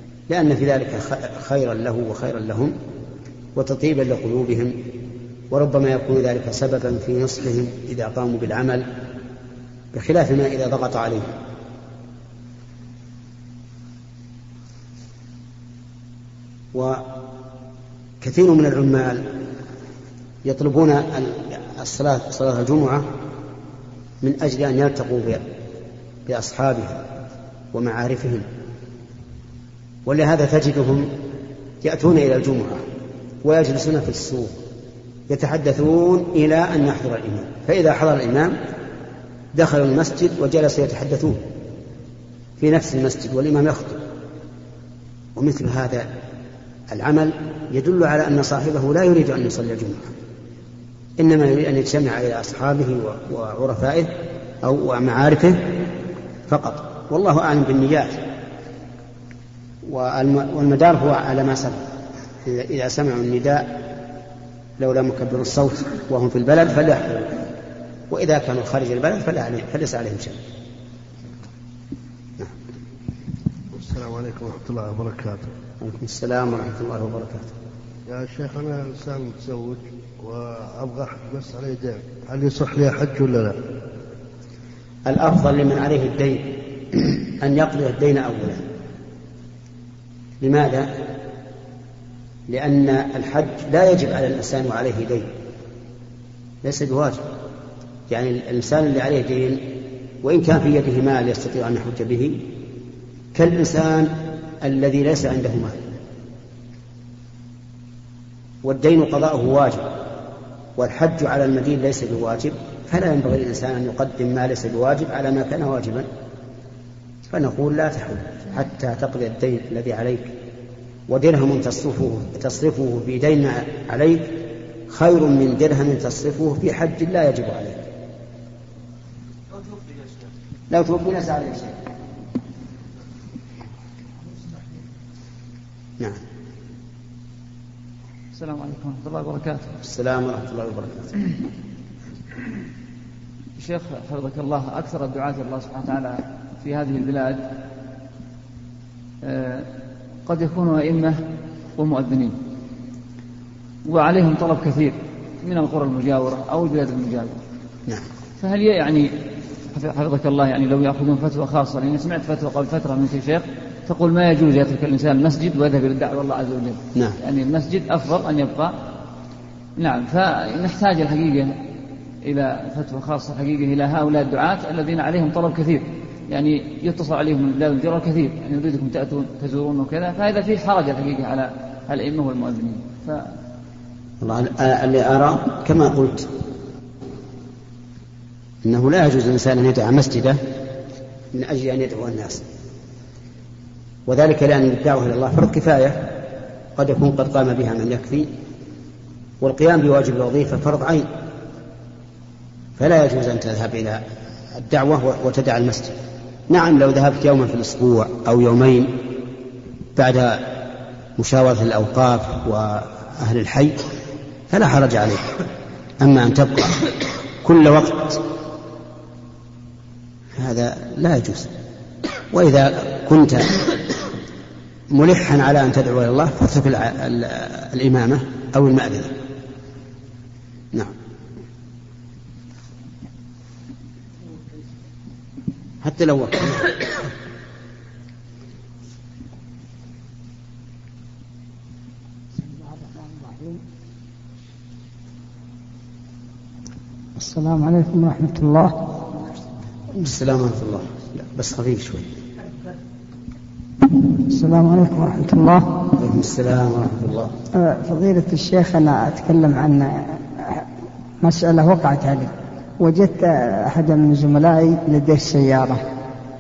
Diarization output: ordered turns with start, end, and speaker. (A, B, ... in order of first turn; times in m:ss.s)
0:00.3-0:02.8 A
0:03.6-0:04.8 A
0:05.5-0:08.9 A
0:09.9-0:11.3 A
0:16.7-0:17.0 A
0:18.2-0:19.3 A
0:20.4-0:23.1 A
0:24.2-0:25.4 A
0:26.3-0:27.0 A
0:27.7-0:28.5 A
0:30.1-0:31.1 A
0:31.8-0:32.8 A
0:33.4-0:34.6 A
0:35.3-0:38.6 A
0:39.5-0:41.4 A
0:42.6-0:44.0 A
0:45.4-0:46.1 A
0:46.9-0:50.1 A
0:51.2-0:55.8 A
0:56.5-0:58.2 A
0:59.9-1:01.8 A
1:02.4-1:03.7 A
1:04.8-1:07.3 A
1:08.1-1:10.4 A
1:13.7-1:15.5 B
1:15.8-1:17.5 A
1:18.1-1:23.6 B
1:25.1-1:28.7 A
1:30.4-1:30.9 A
1:32.5-1:35.3 A
1:36.6-1:37.2 A
1:38.1-1:39.6 A
1:40.2-1:42.5 A
1:43.4-1:45.8 A
1:48.6-1:49.9 A
1:50.8-1:56.1 A
1:57.3-2:00.3 A
2:01.1-2:04.3 A
2:04.9-2:07.8 A
2:10.7-2:11.8 A
2:18.4-2:19.7 C
2:19.8-2:21.2 A
2:23.6-2:27.5 C
2:29.2-2:29.7 C
2:30.3-2:31.2 C
2:31.8-2:32.4 C
2:33.9-2:37.3 C
2:38.4-2:39.1 C
2:39.7-2:48.8 C
2:49.8-2:51.5 C
2:52.2-3:03.4 C
3:04.2-3:06.3 A
3:08.6-3:10.4 A
3:11.3-3:12.4 A
3:14.1-3:16.2 A
3:16.8-3:18.3 A
3:19.4-3:21.1 A
3:22.8-3:26.0 A
3:26.5-3:28.9 A
3:30.0-3:30.4 A
3:31.2-3:33.8 A
3:34.5-3:35.3 A
3:36.0-3:36.8 A
3:37.4-3:38.2 A
3:40.4-3:41.5 A
3:42.3-3:43.6 A
3:44.9-3:49.1 A
3:55.8-3:57.0 A
4:02.4-4:03.6 D
4:07.2-4:08.7 D
4:10.0-4:12.1 A
4:14.3-4:15.7 D
4:16.0-4:17.3 A
4:17.6-4:20.6 D
4:21.2-4:25.8 D